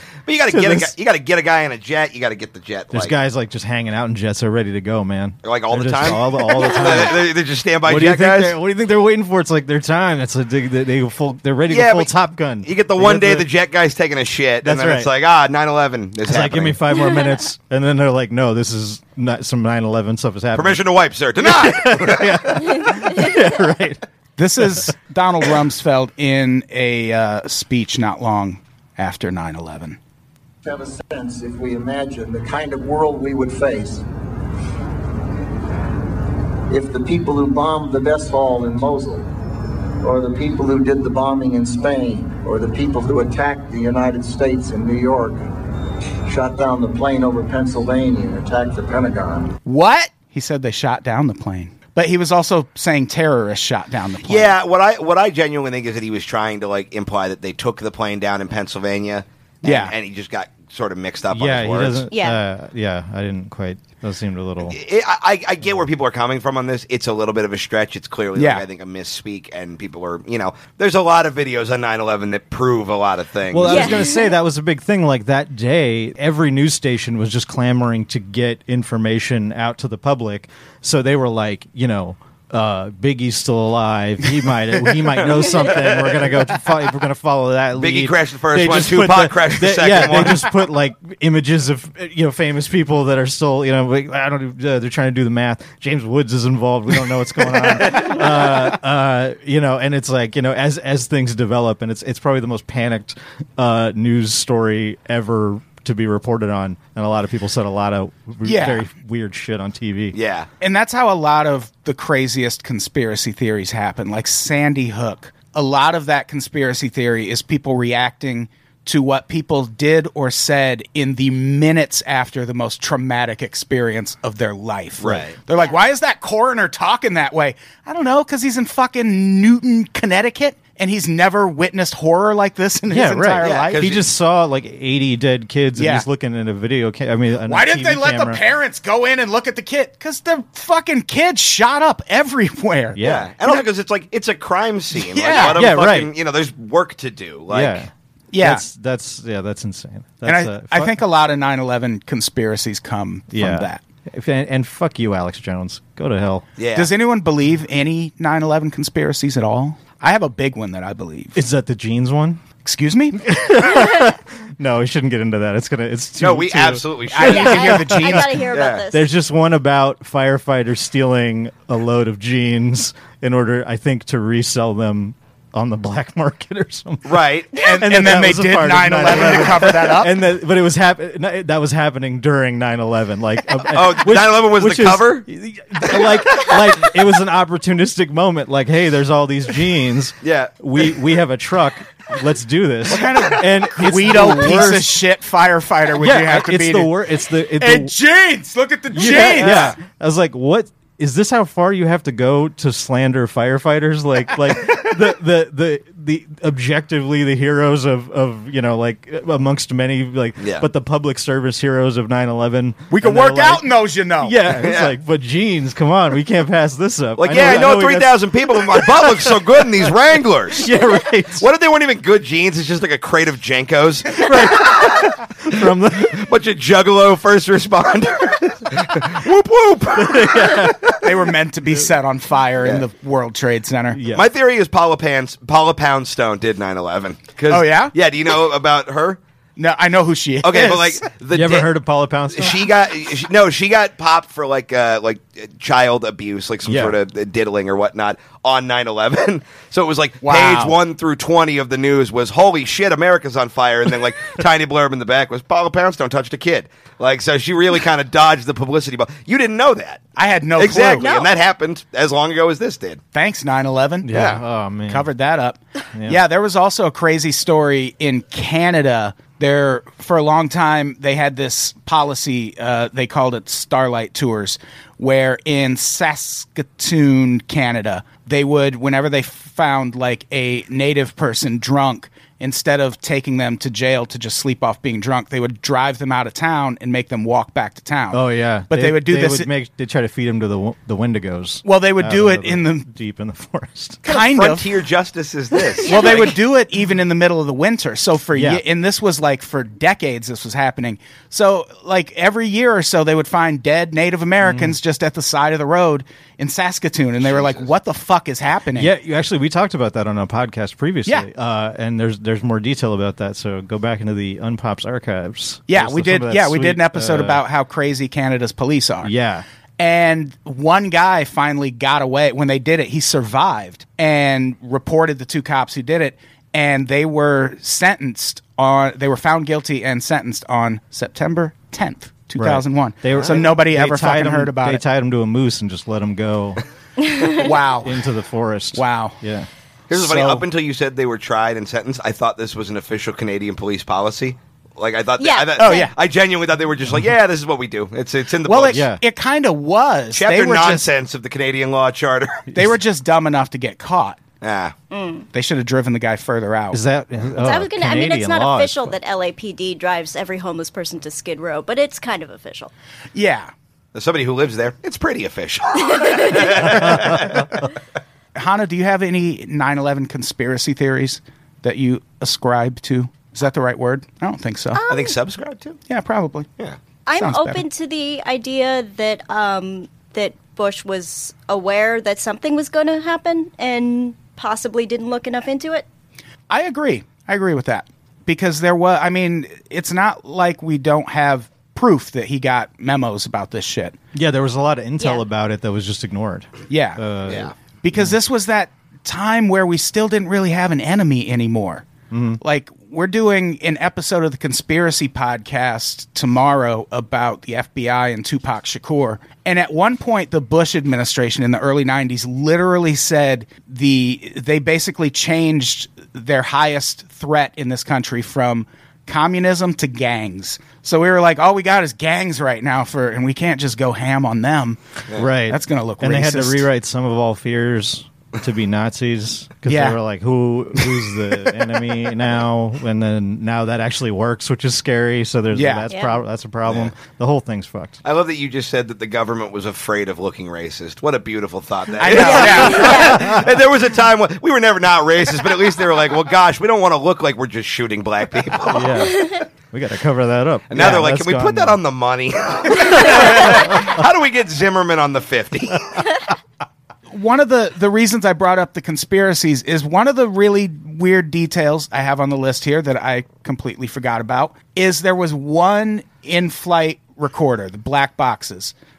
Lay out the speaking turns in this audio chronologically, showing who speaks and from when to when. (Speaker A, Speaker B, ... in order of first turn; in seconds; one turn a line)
Speaker A: 0.3-3.1
Speaker B: 0.5-0.9
Speaker B: 2.9-7.3
Speaker A: 5.4-8.6
Speaker B: 7.8-13.5
Speaker A: 11.7-16.8
Speaker B: 14.6-15.1
Speaker B: 16.2-20.8
Speaker A: 20.5-22.9
Speaker B: 21.4-24.0
Speaker C: 24.4-30.0
Speaker B: 24.6-24.9
Speaker D: 30.6-34.0
Speaker D: 36.7-39.3
Speaker D: 40.0-45.4
Speaker D: 46.2-49.5
Speaker C: 49.6-54.5
Speaker A: 54.2-62.1
Speaker C: 59.6-59.9
Speaker B: 61.3-64.8
Speaker E: 62.1-62.4
Speaker A: 64.7-74.0
Speaker C: 68.3-68.6
Speaker B: 73.5-110.2
Speaker E: 73.7-74.2
Speaker A: 85.3-86.3
Speaker A: 87.8-90.5
Speaker C: 108.4-108.8
Speaker A: 110.1-110.5
Speaker C: 110.6-133.9
Speaker A: 125.0-125.3
Speaker B: 132.9-138.4
Speaker A: 133.4-134.0
Speaker C: 135.8-136.0
Speaker C: 137.5-143.6
Speaker B: 142.9-143.3
Speaker A: 143.0-147.8
Speaker C: 144.9-145.6
Speaker B: 145.3-146.1
Speaker B: 147.5-151.0
Speaker C: 148.3-148.6
Speaker C: 150.2-153.8
Speaker B: 153.3-156.4
Speaker A: 156.6-156.9
Speaker C: 156.7-161.4
Speaker B: 161.3-162.4
Speaker C: 162.6-163.4
Speaker B: 163.2-195.0
Speaker A: 166.2-167.8
Speaker C: 167.1-168.4
Speaker E: 167.2-169.1
Speaker A: 168.5-168.8
Speaker A: 177.1-177.6
Speaker C: 177.5-180.1
Speaker A: 183.7-185.2
Speaker A: 185.9-186.6
Speaker A: 190.2-190.5
Speaker C: 192.9-196.9
Speaker B: 196.0-197.9
Speaker C: 197.6-199.8
Speaker B: 198.9-213.7
Speaker A: 199.0-199.7
Speaker A: 210.4-210.7
Speaker C: 212.9-214.3
Speaker B: 214.2-219.9
Speaker A: 214.6-214.9
Speaker A: 217.2-220.7
Speaker B: 220.5-221.5
Speaker A: 221.4-231.0
Speaker B: 224.1-226.2
Speaker B: 229.9-231.1
Speaker C: 231.0-234.0
Speaker B: 233.9-234.3
Speaker A: 234.1-239.2
Speaker C: 237.5-237.9
Speaker C: 239.6-241.1
Speaker A: 240.4-241.7
Speaker B: 241.3-242.7
Speaker A: 242.3-260.0
Speaker B: 246.6-246.9
Speaker C: 250.2-250.8
Speaker C: 260.2-261.1
Speaker A: 260.6-263.0
Speaker E: 261.0-261.3
Speaker C: 263.1-264.1
Speaker B: 264.0-265.1
Speaker A: 264.1-264.4
Speaker C: 264.9-289.5
Speaker B: 265.9-266.2
Speaker B: 288.1-294.0
Speaker C: 291.6-292.8
Speaker C: 294.0-294.7
Speaker A: 294.0-296.4
Speaker C: 295.7-308.9
Speaker E: 295.9-296.2
Speaker B: 298.3-298.6
Speaker B: 304.4-304.8
Speaker A: 307.2-307.6
Speaker B: 308.7-317.4
Speaker C: 315.7-319.1
Speaker B: 319.0-319.4
Speaker C: 319.8-334.8
Speaker B: 332.4-336.6
Speaker C: 337.3-338.0
Speaker B: 337.8-339.5
Speaker C: 338.7-339.2
Speaker A: 339.9-348.8
Speaker C: 339.9-340.4
Speaker E: 345.2-345.9
Speaker C: 345.6-345.9
Speaker C: 348.4-350.9
Speaker B: 348.7-349.0
Speaker A: 350.1-352.5
Speaker C: 352.5-354.2
Speaker A: 354.4-354.7
Speaker E: 354.9-355.3
Speaker C: 355.3-356.8
Speaker B: 356.7-358.9
Speaker E: 357.4-362.7
Speaker C: 363.1-363.5
Speaker A: 363.9-367.6
Speaker E: 365.9-366.4
Speaker B: 366.9-367.2
Speaker C: 368.3-374.8
Speaker E: 374.7-375.2
Speaker A: 374.9-375.8
Speaker C: 375.9-376.5
Speaker E: 377.1-385.8
Speaker C: 377.2-377.6
Speaker C: 386.5-394.0
Speaker B: 394.1-398.2
Speaker C: 396.7-397.0
Speaker C: 397.8-401.9
Speaker B: 402.1-402.4
Speaker C: 402.4-424.8
Speaker B: 425.1-438.0
Speaker C: 425.5-426.7
Speaker C: 429.6-430.0
Speaker C: 435.5-435.9
Speaker E: 435.9-436.2
Speaker A: 438.0-448.9
Speaker C: 442.0-443.2
Speaker E: 442.1-443.3
Speaker B: 442.3-443.5
Speaker B: 448.6-451.8
Speaker A: 450.7-456.0
Speaker B: 452.8-454.0
Speaker C: 457.1-468.7